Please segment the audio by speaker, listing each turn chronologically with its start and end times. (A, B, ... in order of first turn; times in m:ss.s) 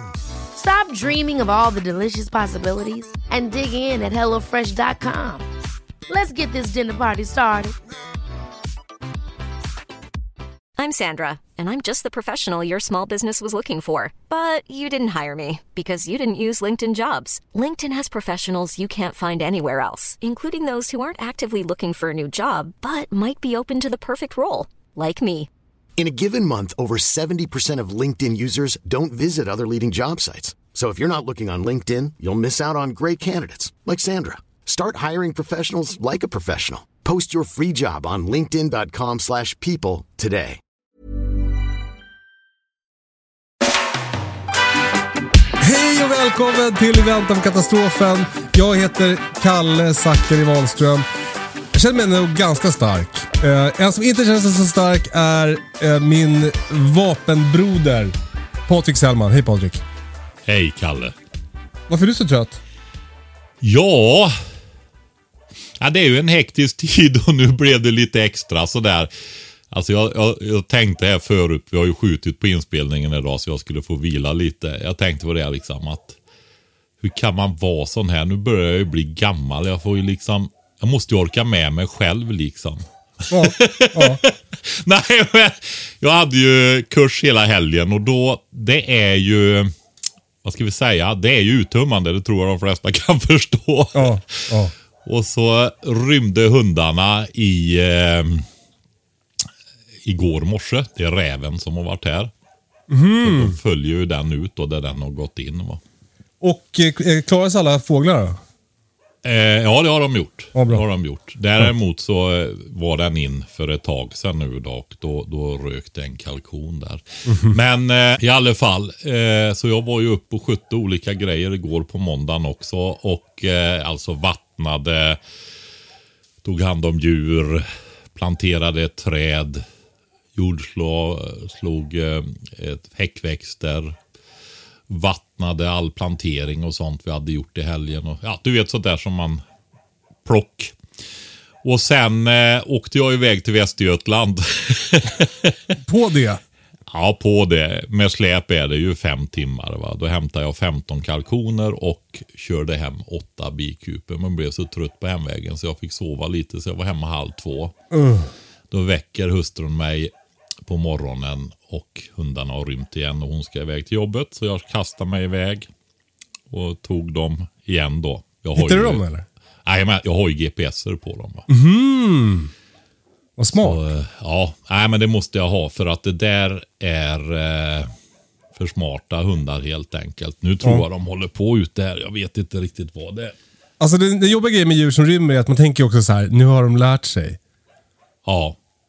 0:00.5-0:05.5 A
0:06.1-0:07.7 A
0:10.8-0:25.5 B
0:26.0-0:40.6 C
0:45.6-0:51.0 D
0:51.7-0:58.1 D
0:58.7-0:59.8 D
1:00.5-1:01.1 E
1:01.9-1:02.6 D
1:03.6-1:04.3 E
1:05.8-1:09.1 E
1:09.7-1:16.2 E
1:17.0-1:29.7 E
1:23.3-1:24.2 D
1:30.4-1:34.5 E
1:33.9-1:34.7 D
1:35.0-1:38.4 E
1:40.0-1:42.3 E
1:42.9-1:43.6 D
1:43.2-1:45.8 E
1:46.4-1:48.4 D
1:49.2-2:05.2 E
1:50.5-1:50.8 D
1:57.3-1:57.6 D
2:06.4-2:09.6 E
2:10.3-2:14.0 E
2:14.9-2:19.4 E
2:20.2-2:20.8 E
2:21.6-2:25.6 E
2:25.8-2:26.4 D
2:26.9-2:37.7 E
2:37.9-2:38.3 D
2:38.7-2:40.1 E
2:40.6-2:45.7 E
2:46.5-2:49.0 E
2:48.6-2:49.2 D
2:49.6-2:51.5 E
2:51.5-2:52.5 D
2:53.4-2:53.8 D
2:53.5-2:57.9 E
2:58.6-3:03.3 E
3:03.8-3:07.4 D
3:08.2-3:08.6 E